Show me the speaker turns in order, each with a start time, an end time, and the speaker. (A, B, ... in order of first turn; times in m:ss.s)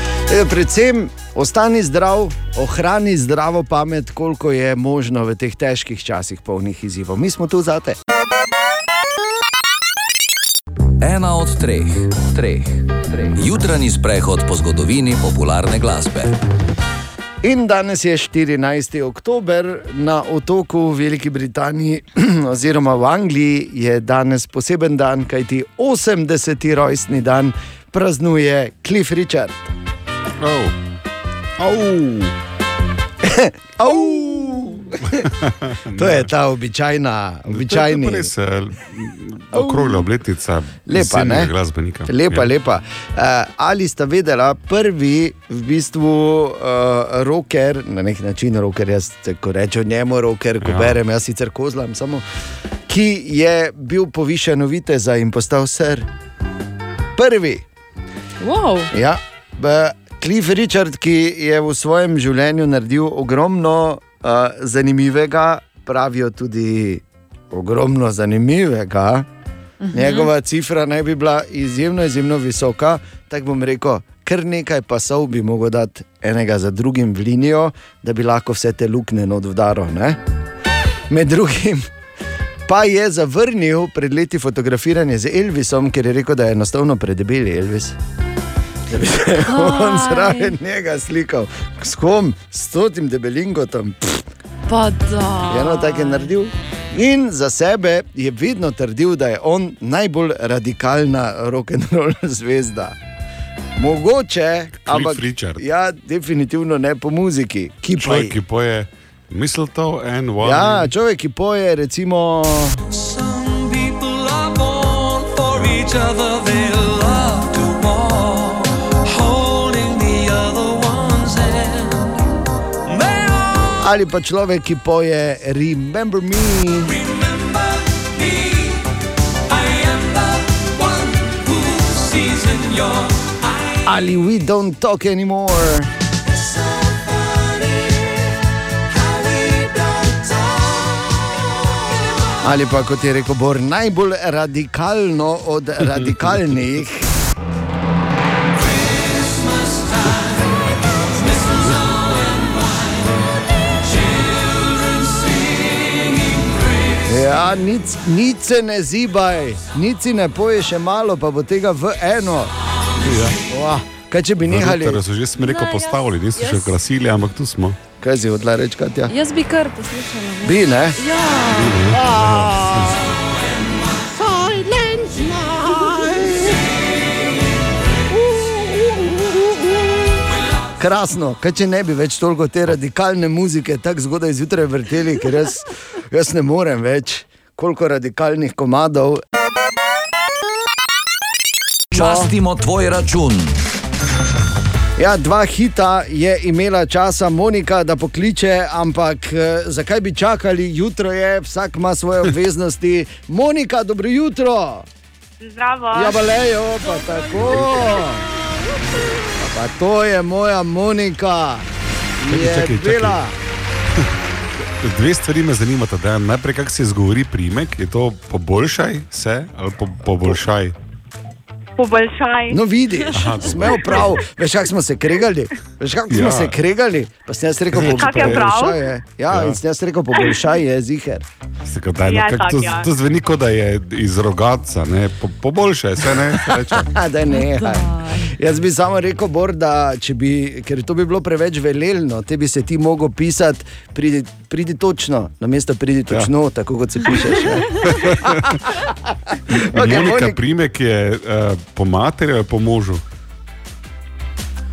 0:00.3-0:08.0 A
0:11.0-0:16.4 B
0:17.4-0:29.7 A
0:30.4-0:30.8 C
0:31.6-0:32.3 C
0:33.2-0:35.2 A
0:35.1-0:36.3 C
0:36.0-0:38.3 A
0:37.5-0:42.5 C
0:39.5-0:40.0 A
0:40.9-0:41.5 A
0:42.1-0:52.2 A
0:50.6-0:51.0 C
0:52.9-0:56.1 A
0:57.2-0:57.6 A
0:58.4-0:58.9 D
0:58.9-1:09.3 A
1:09.8-1:10.3 D
1:09.9-1:20.2 A
1:21.1-1:21.9 A
1:22.7-1:28.0 A
1:28.9-1:34.2 A
1:29.5-1:30.6 D
1:34.7-1:36.3 D
1:35.5-1:43.0 A
1:43.8-1:48.4 A
1:44.8-1:45.6 C
1:48.0-1:50.9 C
1:50.4-1:52.8 A
1:53.1-2:01.9 E
2:03.0-2:03.3 E
2:03.8-2:07.0 A
2:07.1-2:07.5 E
2:08.2-2:08.6 E
2:09.5-2:13.3 E
2:13.8-2:15.9 A
2:16.4-2:18.1 E
2:19.0-2:21.0 E
2:22.4-2:27.0 A
2:37.1-2:42.5 A
2:43.0-2:43.4 C
2:43.4-2:45.0 A
2:44.5-2:47.8 C
2:45.4-2:46.8 D
2:48.0-2:49.1 A
2:49.1-2:51.8 D
2:50.4-2:51.0 A
2:51.5-2:53.0 C
2:51.9-2:52.9 A
2:54.2-2:56.5 A
2:58.9-2:59.3 A
3:00.8-3:09.2 A
3:11.9-3:13.6 B
3:12.0-3:12.3 A
3:15.0-3:24.9 A
3:25.4-3:26.3 F
3:25.9-3:28.2 A
3:27.4-3:27.9 C
3:29.4-3:31.7 A
3:32.2-3:33.4 A
3:32.3-3:33.2 C
3:34.8-3:40.8 C
3:41.8-3:42.6 F
3:42.5-3:51.3 A
3:43.1-3:44.2 C
3:46.1-3:46.6 C
3:47.7-3:48.6 C
3:48.0-3:48.8 F
3:49.3-3:49.6 C
3:51.7-3:56.9 C
3:52.0-3:52.9 F
3:56.2-4:08.1 A
3:57.3-3:58.4 D
4:07.8-4:08.6 C
4:09.5-4:13.0 C
4:09.5-4:10.4 A